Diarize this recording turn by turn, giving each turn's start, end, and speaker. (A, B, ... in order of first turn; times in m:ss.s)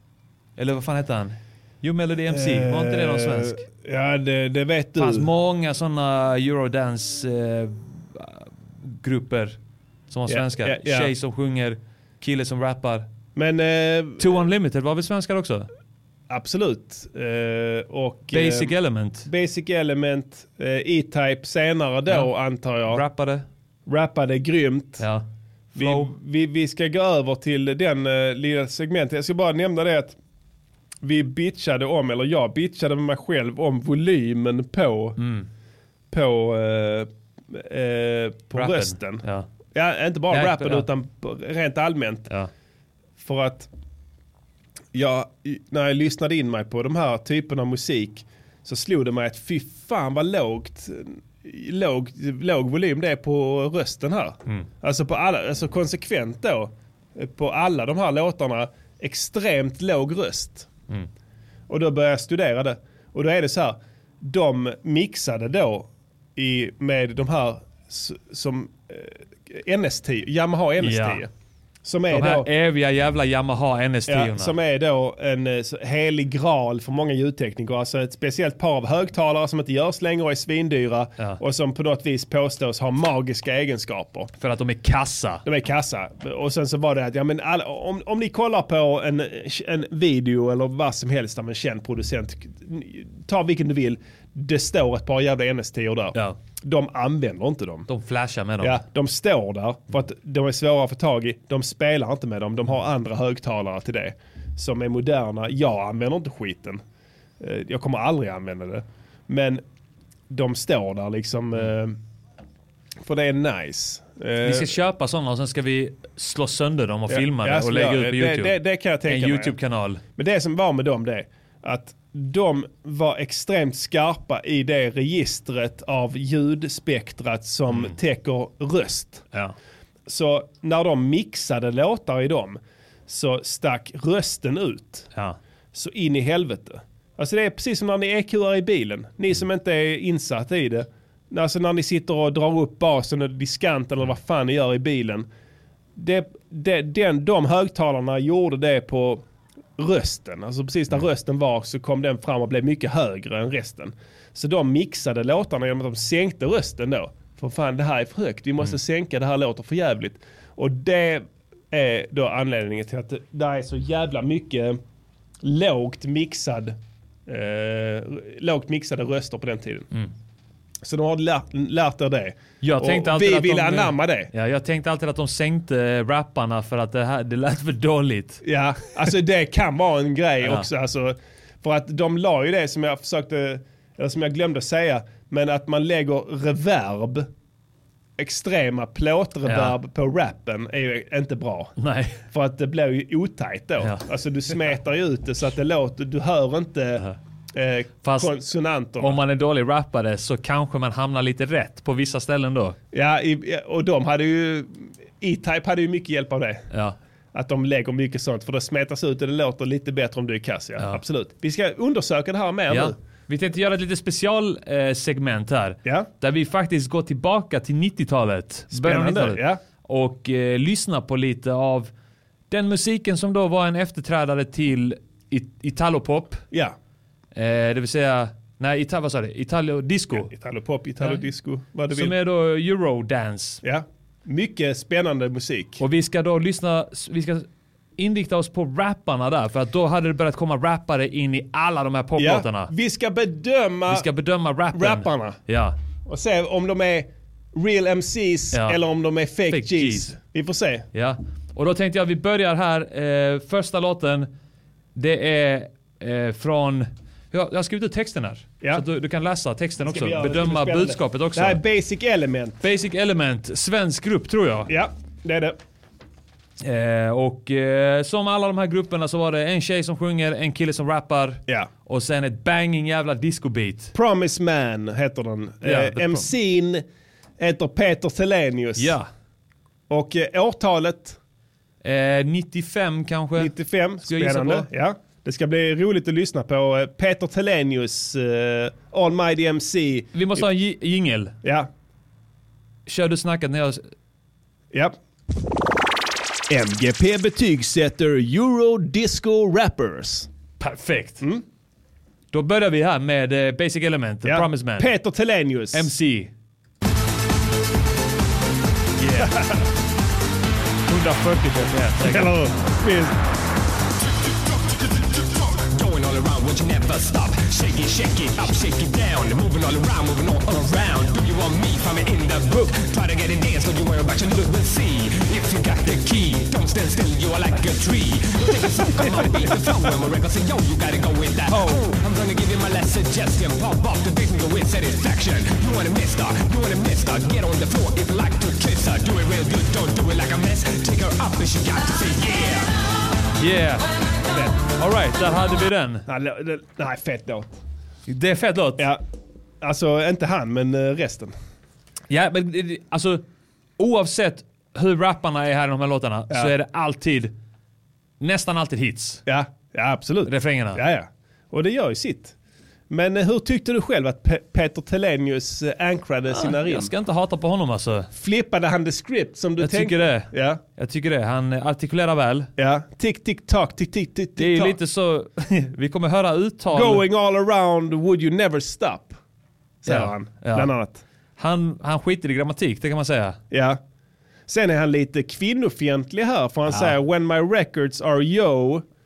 0:00.6-0:03.6 A
0:02.3-0:05.3 B
0:05.0-0:09.6 A
0:10.1-0:13.1 A
0:10.3-0:11.1 B
0:13.4-0:14.3 B
0:14.2-0:15.7 A
0:16.3-0:18.7 B
0:18.3-0:19.3 A
0:19.2-0:23.0 B
0:22.9-0:23.4 A
0:23.9-0:25.0 B
0:25.0-0:26.1 A
0:25.8-0:30.2 B
0:31.0-0:35.2 B
0:35.2-0:35.5 A
0:36.1-0:39.2 B
0:38.6-0:39.5 A
0:39.7-0:42.3 B
0:40.3-0:40.9 A
0:43.2-0:43.7 B
0:44.9-1:00.7 B
1:01.7-1:11.3 B
1:10.8-1:11.2 A
1:11.8-1:12.5 B
1:12.1-1:14.5 A
1:14.1-1:24.3 B
1:24.4-1:25.4 A
1:25.4-1:37.9 B
1:37.9-1:38.8 A
1:38.6-1:46.8 B
1:47.4-1:49.6 B
1:50.3-1:52.0 B
1:53.0-1:54.7 B
1:54.4-2:00.0 A
1:57.1-1:59.5 B
2:00.2-2:09.2 B
2:10.1-2:15.1 B
2:15.7-2:25.3 B
2:26.0-2:29.2 B
2:29.8-2:44.8 B
2:45.4-2:49.9 B
2:50.8-2:54.3 B
2:52.6-2:58.4 A
2:58.4-3:07.3 B
3:08.2-3:11.7 B
3:09.4-3:09.7 A
3:11.8-3:12.2 A
3:12.3-3:19.2 B
3:18.0-3:18.3 A
3:19.0-3:22.8 A
3:22.9-3:26.6 B
3:26.7-3:27.0 A
3:27.3-3:33.0 B
3:32.7-3:41.9 A
3:38.7-3:39.6 B
3:42.5-3:46.4 A
3:47.3-3:50.3 A
3:50.1-3:52.1 B
3:51.9-3:53.6 A
3:53.6-3:55.8 B
3:55.8-4:02.7 A
4:02.2-4:04.0 B
4:03.9-4:05.7 A
4:04.7-4:05.4 B
4:06.1-4:10.8 B
4:08.5-4:08.8 A
4:09.5-4:10.1 A
4:10.9-4:14.3 A
4:14.9-4:21.6 A
4:19.8-4:22.6 B
4:22.6-4:24.7 A
4:24.7-4:25.6 B
4:26.6-4:33.9 A
4:33.9-4:36.8 B
4:35.6-4:36.3 A
4:37.4-4:38.9 B
4:38.8-4:39.1 A
4:39.9-4:41.2 B
4:41.8-4:43.5 A
4:43.4-4:50.4 B
4:44.0-4:44.7 A
4:50.1-4:51.4 A
4:51.4-4:51.7 B
4:52.8-4:53.8 A
4:56.5-5:00.3 B
5:00.6-5:01.2 A
5:02.3-5:04.9 A
5:04.2-5:05.9 B
5:05.7-5:06.3 A
5:09.0-5:09.5 A
5:09.2-5:09.6 B
5:10.9-5:12.3 A
5:12.0-5:13.2 B
5:15.6-5:42.7 C
5:28.9-5:29.3 B
5:31.5-5:31.8 B
5:43.4-5:43.9 A
5:44.3-5:44.6 B
5:44.6-5:46.0 A
5:46.1-5:47.6 B
5:48.1-5:48.9 A
5:49.6-5:51.3 B
5:52.1-5:53.2 A
5:53.8-5:57.3 A
5:58.2-5:59.2 A
5:59.2-6:02.3 B
6:00.3-6:00.8 A
6:02.9-6:06.9 B
6:06.3-6:08.1 A
6:08.1-6:10.6 B
6:09.6-6:12.5 A
6:12.6-6:14.7 B
6:14.4-6:17.0 A
6:16.7-6:19.2 B
6:19.8-6:21.0 B
6:19.8-6:20.7 A
6:21.4-6:23.4 A
6:23.5-6:23.8 B
6:24.5-6:28.8 B